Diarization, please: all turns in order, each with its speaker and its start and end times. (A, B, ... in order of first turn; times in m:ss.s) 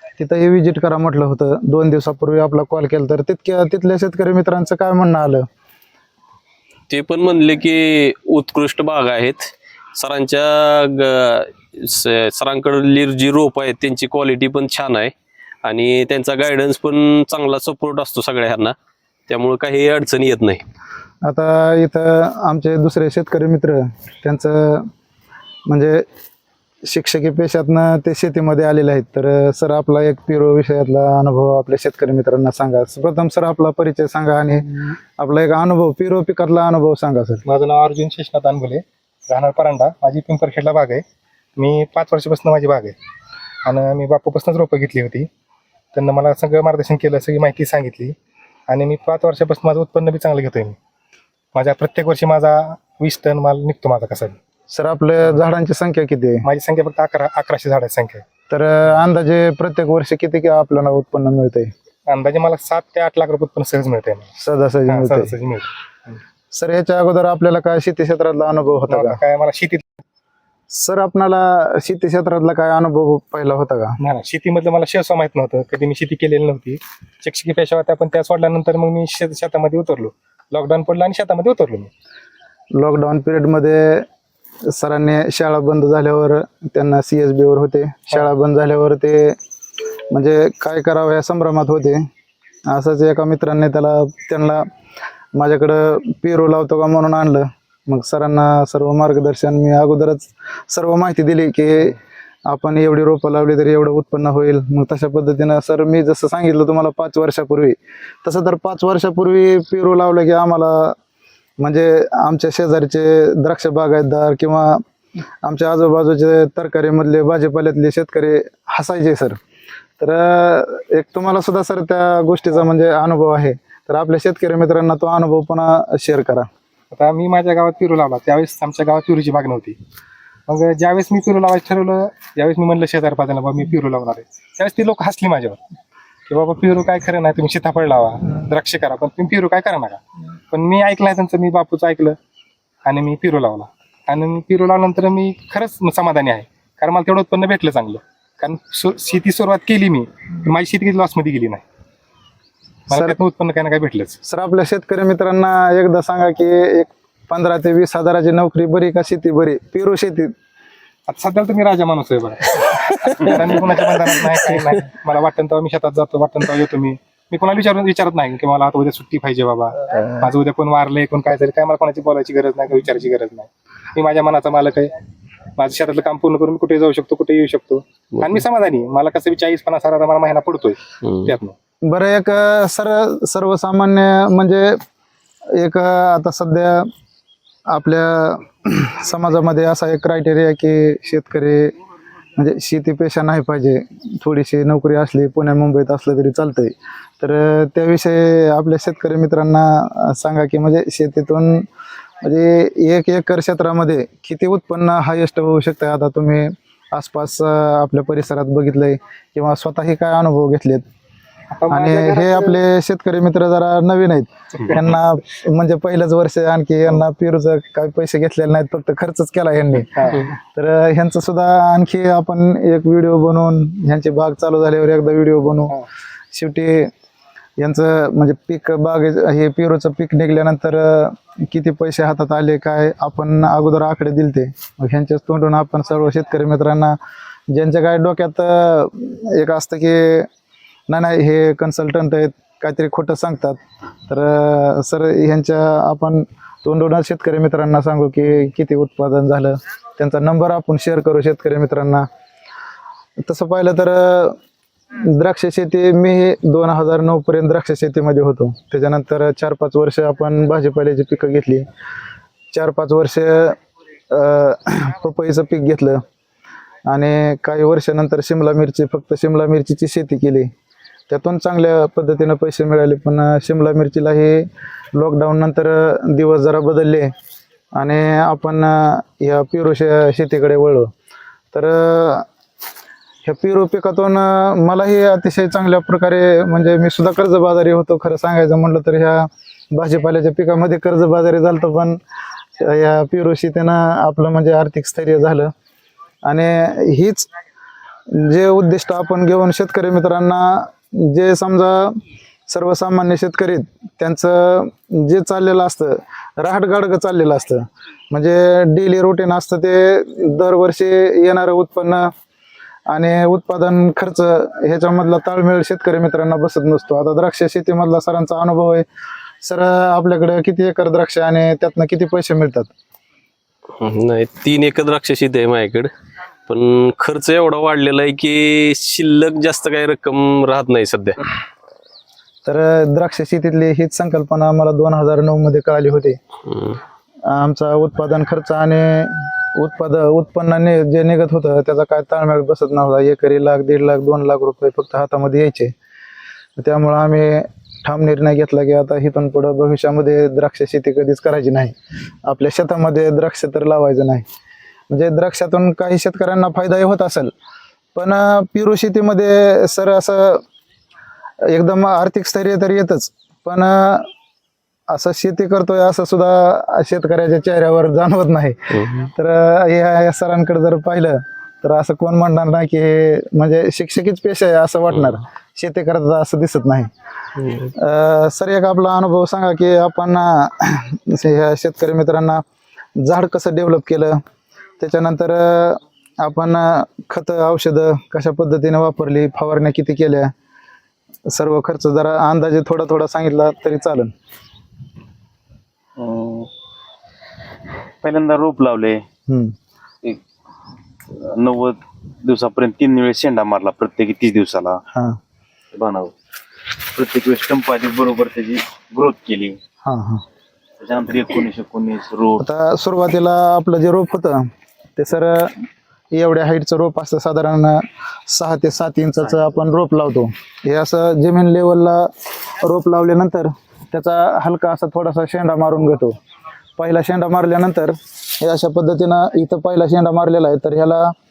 0:00.2-0:05.4 A
0:06.9-0:15.1 B
0:15.6-0:18.8 B
0:19.3-0:20.6 B
0:21.2-0:24.9 A
0:25.7-0:26.1 A
0:26.8-0:37.4 A
0:37.5-0:41.0 C
0:41.6-0:43.0 C
0:43.6-0:45.3 C
0:45.9-0:48.2 C
0:48.7-0:50.8 C
0:51.5-0:54.4 C
0:54.7-0:56.5 A
0:56.4-0:58.2 C
0:58.5-1:01.7 A
1:02.1-1:04.3 C
1:04.4-1:05.4 A
1:04.9-1:06.2 C
1:06.5-1:09.2 A
1:08.9-1:10.0 C
1:10.7-1:14.0 A
1:14.0-1:21.9 C
1:22.7-1:24.1 A
1:24.7-1:29.4 A
1:30.1-1:32.0 A
1:32.7-1:34.7 A
1:35.4-1:51.0 A
1:51.6-1:54.8 A
1:55.4-1:59.4 A
2:00.0-2:06.5 A
2:06.9-2:09.8 C
2:10.5-2:15.6 C
2:16.3-2:22.2 C
2:22.8-2:31.6 C
2:32.9-2:34.2 C
2:34.2-2:40.3 A
2:41.1-2:55.0 C
2:42.9-2:43.3 B
2:55.6-3:01.6 C
3:01.8-3:04.8 A
3:05.6-3:06.9 A
3:07.7-3:11.7 A
3:12.4-3:21.7 A
3:22.2-3:30.8 A
3:31.5-3:32.6 C
3:31.7-3:45.8 A
3:46.3-3:46.9 A
3:47.6-3:57.0 A
3:57.5-4:00.3 A
4:00.9-4:12.1 A
4:13.2-4:14.4 A
4:15.0-4:21.6 A
4:22.5-4:23.6 A
4:24.1-4:26.0 A
4:26.9-4:30.5 A
4:31.1-4:37.1 A
4:37.8-4:40.9 A
4:41.5-4:42.3 A
4:43.2-4:52.0 A
4:52.6-4:55.5 A
4:56.3-4:57.3 A
4:58.1-5:12.1 A
5:12.9-5:18.8 A
5:19.4-5:22.7 A
5:23.8-5:25.9 B
5:26.5-5:31.2 B
5:32.4-5:36.2 A
5:36.5-5:36.8 B
5:37.3-5:45.7 A
5:46.6-5:51.7 A
5:52.2-5:54.2 A
5:54.9-5:57.3 A
5:58.0-6:00.4 A
6:01.5-6:04.1 A
6:04.9-6:16.9 A
6:08.7-6:09.1 B
6:17.4-6:17.7 B
6:17.8-6:22.4 A
6:23.0-6:24.2 A
6:24.8-6:30.3 A
6:31.3-6:34.1 A
6:36.0-6:36.5 D
6:38.0-6:39.0 D
6:39.3-6:39.5 A
6:41.1-6:44.8 D
6:44.9-6:45.2 A
6:45.7-6:46.2 D
6:46.7-6:49.6 D
6:49.8-6:50.2 A
6:50.8-6:52.4 D
6:52.4-6:54.4 A
6:55.0-7:06.2 A
6:59.3-6:59.5 D
7:06.8-7:11.1 A